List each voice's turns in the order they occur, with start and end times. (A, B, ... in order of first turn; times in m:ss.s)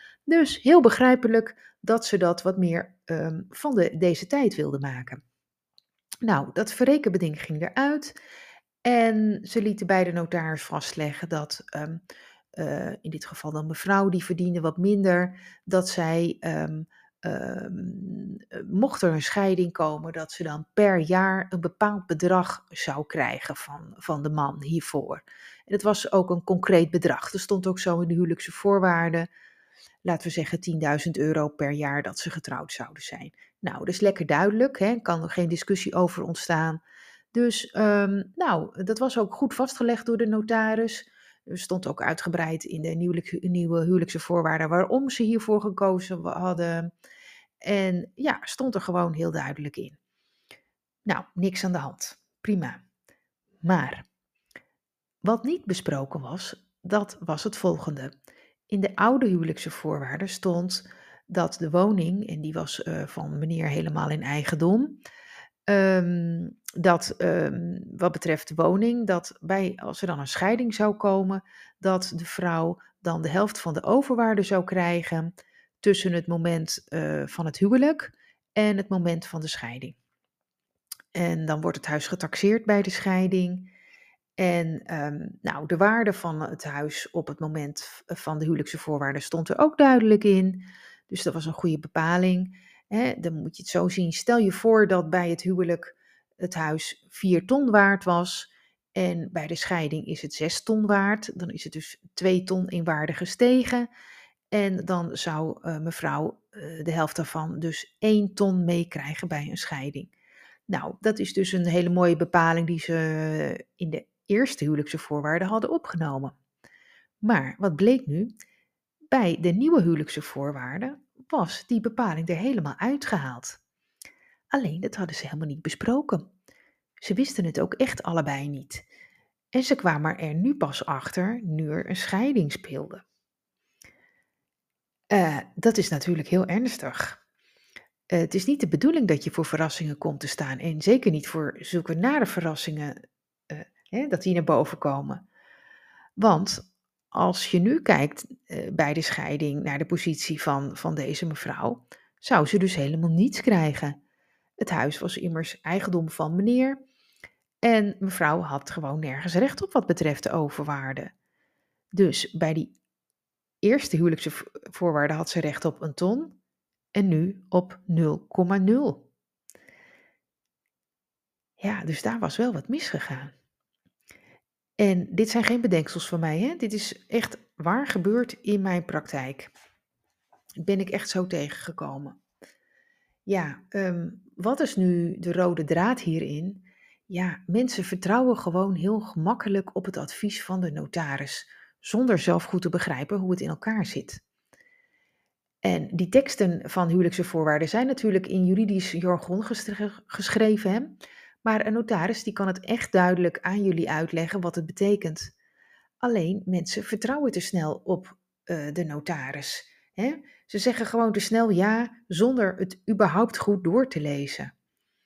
0:00.3-0:05.2 A
0:06.2-0:08.1 A
0:08.8-0:12.0 A
0:12.6-0:29.3 A
0:30.0-0:36.8 A
0:37.3-0:46.9 A
0:47.6-0:50.0 A
0:51.0-0:52.8 A
0:53.6-0:54.0 A
0:55.2-0:58.1 A
0:58.7-1:05.0 A
1:05.7-1:20.0 A
1:21.1-1:23.7 A
1:24.4-1:43.9 A
1:44.5-1:50.1 A
1:50.7-1:56.3 A
1:57.2-1:58.3 A
1:59.1-2:03.6 A
2:04.5-2:06.3 A
2:07.0-2:08.8 A
2:09.5-2:13.0 A
2:15.1-2:17.2 A
2:18.1-2:23.0 A
2:23.5-2:25.2 A
2:26.2-2:34.0 A
2:34.6-2:36.8 A
2:37.6-2:41.1 A
2:41.9-2:42.7 A
2:43.6-2:46.4 A
2:46.9-2:49.1 A
2:51.6-2:53.3 A
2:54.8-2:59.5 A
3:00.6-3:02.2 A
3:03.3-3:14.2 A
3:15.6-3:25.3 A
3:26.0-3:34.5 A